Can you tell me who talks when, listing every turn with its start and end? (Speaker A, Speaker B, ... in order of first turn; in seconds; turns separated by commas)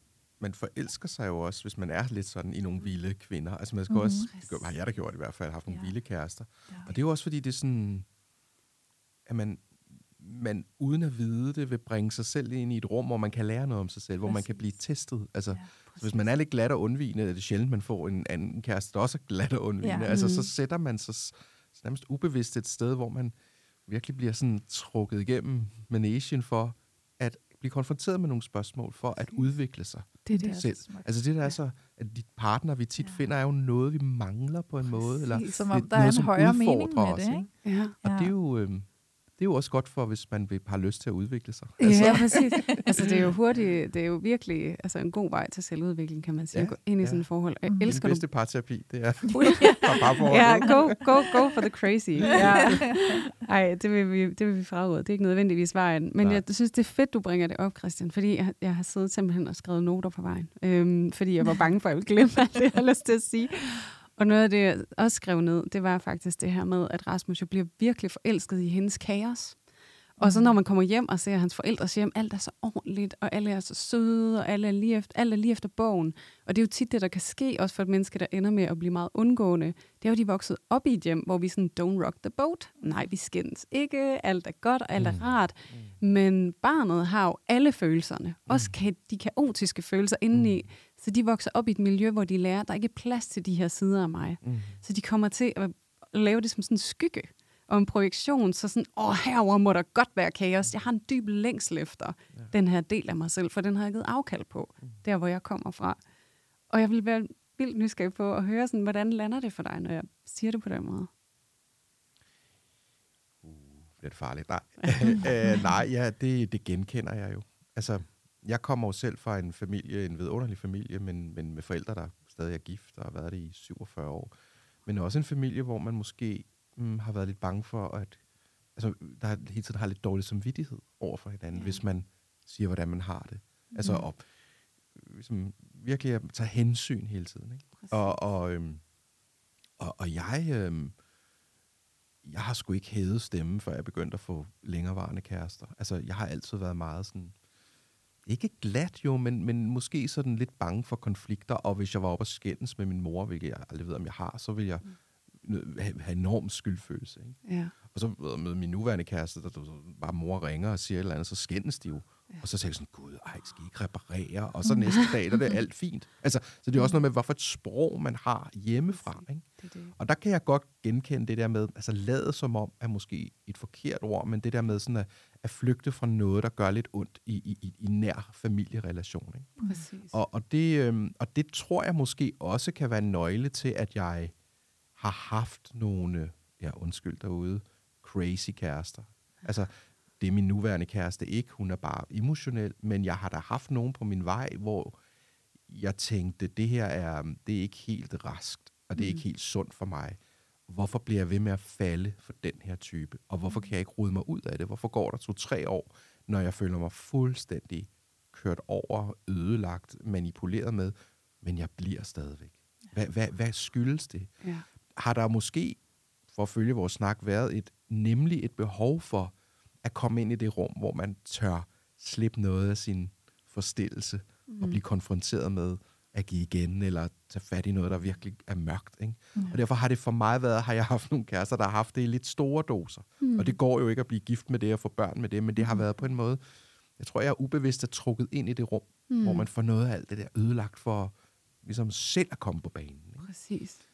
Speaker A: 0.4-8.1, Speaker B: 3.9-4.3, Speaker C: 4.2-4.7, Speaker A: 9.2-23.3, Speaker B: 14.2-14.5, Speaker B: 15.5-16.0, Speaker B: 19.8-20.1, Speaker C: 20.1-20.5, Speaker A: 23.9-37.5, Speaker C: 30.2-30.6, Speaker B: 30.3-31.1, Speaker C: 35.1-35.7, Speaker B: 35.5-37.5, Speaker C: 37.6-38.0, Speaker B: 38.0-38.3, Speaker A: 38.0-43.6, Speaker C: 41.8-48.2, Speaker B: 41.9-42.9, Speaker A: 46.5-47.3, Speaker B: 47.6-48.0, Speaker A: 47.8-51.1, Speaker C: 49.3-69.6, Speaker B: 49.4-50.2, Speaker A: 52.2-52.8, Speaker B: 52.3-53.1, Speaker C: 70.2-106.0, Speaker B: 70.2-70.5, Speaker A: 85.0-85.9, Speaker A: 88.5-88.7, Speaker A: 90.3-90.6, Speaker A: 94.4-94.8, Speaker C: 106.7-111.1, Speaker A: 113.4-124.3, Speaker C: 114.8-115.2, Speaker A: 124.8-128.2, Speaker A: 128.7-134.2, Speaker C: 131.5-131.8, Speaker A: 134.9-138.8, Speaker C: 137.8-138.2, Speaker A: 139.8-140.9, Speaker A: 142.2-147.3, Speaker A: 148.2-154.8, Speaker A: 155.4-157.4, Speaker C: 157.4-157.7, Speaker A: 157.9-179.6, Speaker C: 168.9-169.9, Speaker B: 179.6-179.8, Speaker C: 179.6-180.2, Speaker A: 180.1-184.3, Speaker A: 184.9-195.0, Speaker A: 195.7-214.3, Speaker C: 199.0-199.2, Speaker A: 214.9-236.4, Speaker C: 224.5-224.8, Speaker C: 233.2-233.6, Speaker A: 237.0-243.3, Speaker C: 239.1-239.5, Speaker C: 243.2-243.8